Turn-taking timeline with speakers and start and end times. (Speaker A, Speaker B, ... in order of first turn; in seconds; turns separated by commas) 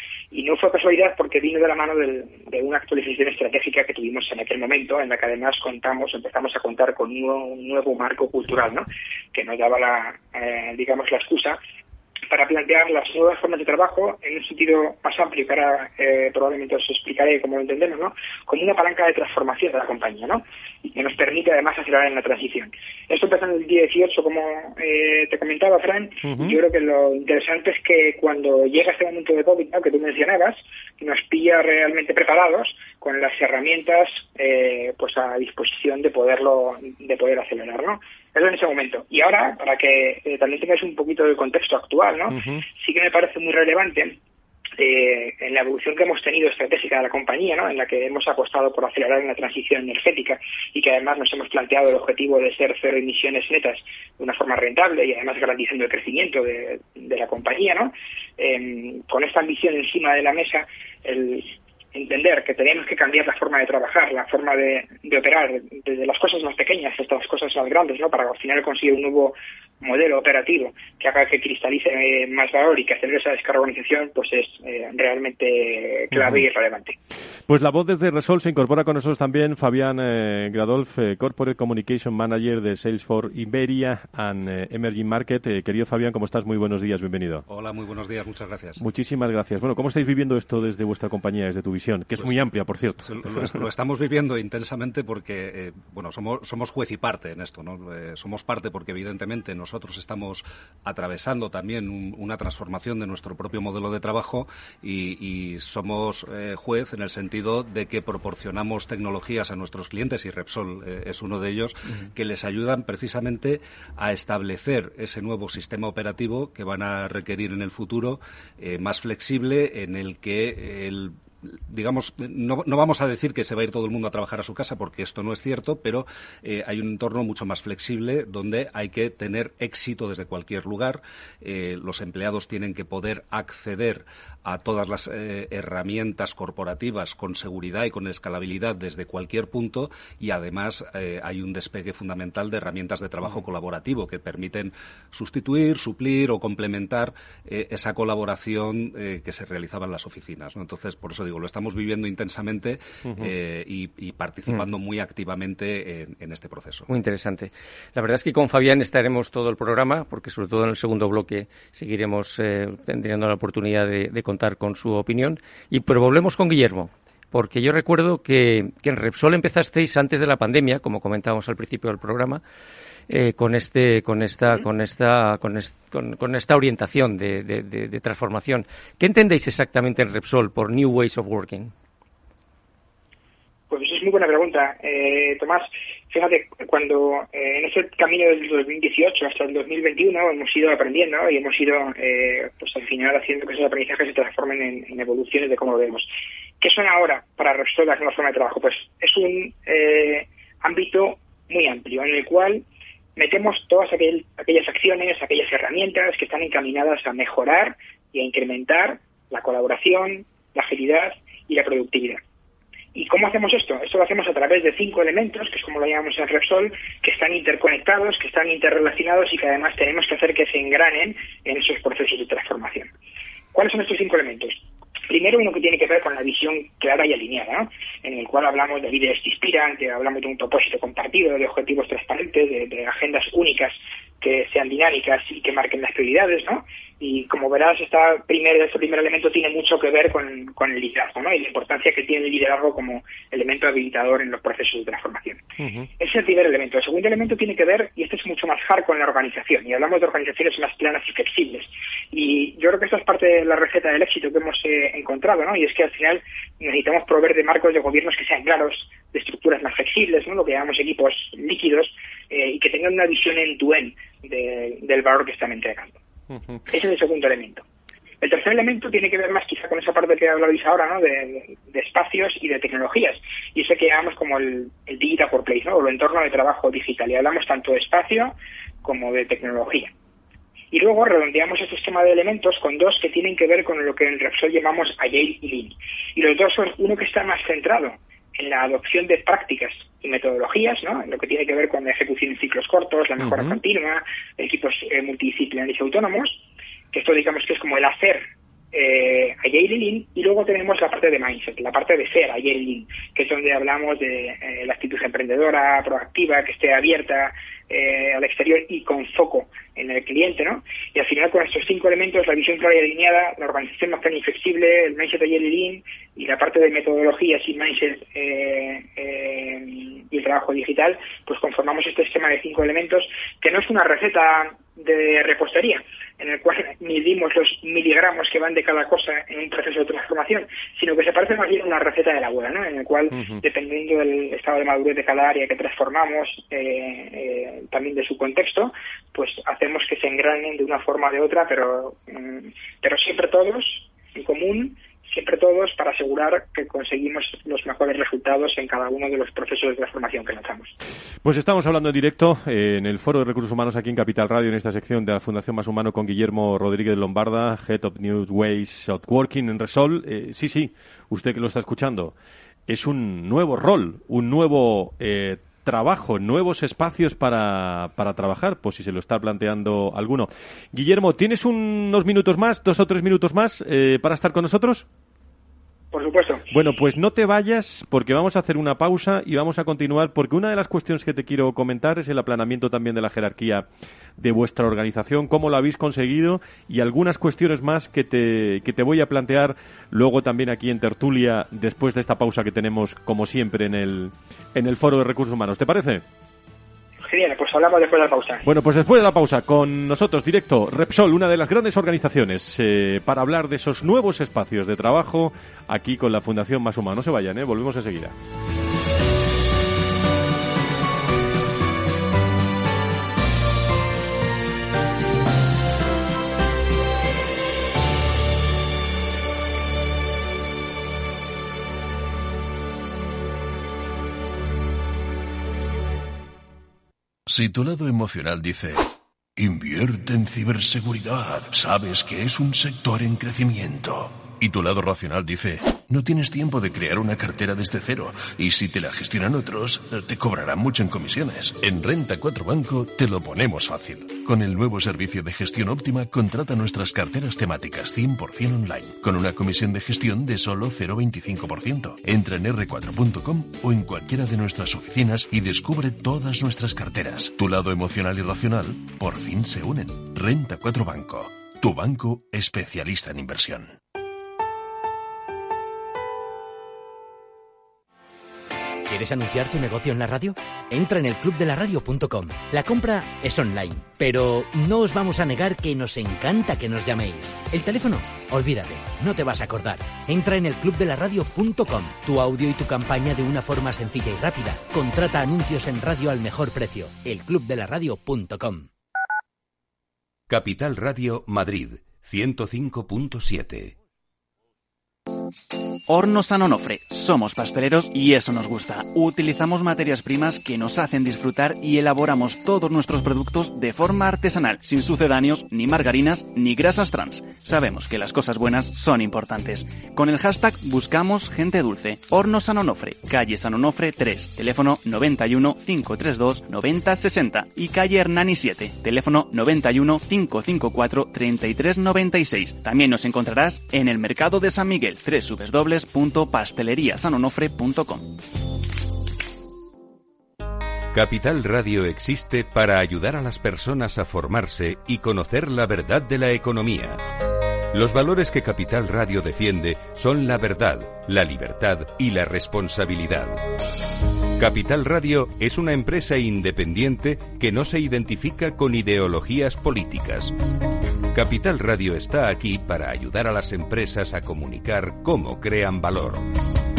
Speaker A: 0.3-11.6, Speaker A: 12.3-44.2, Speaker B: 26.2-26.6, Speaker B: 42.3-42.6, Speaker A: 44.8-77.0, Speaker B: 76.1-76.4, Speaker B: 77.5-87.4, Speaker C: 87.5-88.8, Speaker B: 88.8-93.4, Speaker C: 93.0-156.9, Speaker D: 156.9-172.4, Speaker D: 173.1-181.7, Speaker A: 183.7-196.1, Speaker A: 196.6-202.6, Speaker A: 203.2-212.2, Speaker A: 212.9-222.9, Speaker A: 223.5-245.4, Speaker B: 245.6-245.9, Speaker A: 246.0-266.0, Speaker B: 266.3-266.6, Speaker A: 266.7-267.6, Speaker A: 268.2-279.9, Speaker A: 280.7-350.7, Speaker B: 293.2-293.6, Speaker B: 333.1-333.4, Speaker B: 351.2-362.1, Speaker B: 362.7-374.9, Speaker A: 375.9-376.4, Speaker B: 376.5-383.6, Speaker B: 384.2-396.0, Speaker A: 397.1-398.4, Speaker B: 398.4-408.1, Speaker E: 427.3-463.8, Speaker F: 468.9-488.7, Speaker G: 490.3-493.8, Speaker H: 495.9-528.1, Speaker G: 530.9-537.0, Speaker G: 537.7-543.4, Speaker G: 544.4-550.4, Speaker G: 551.1-556.4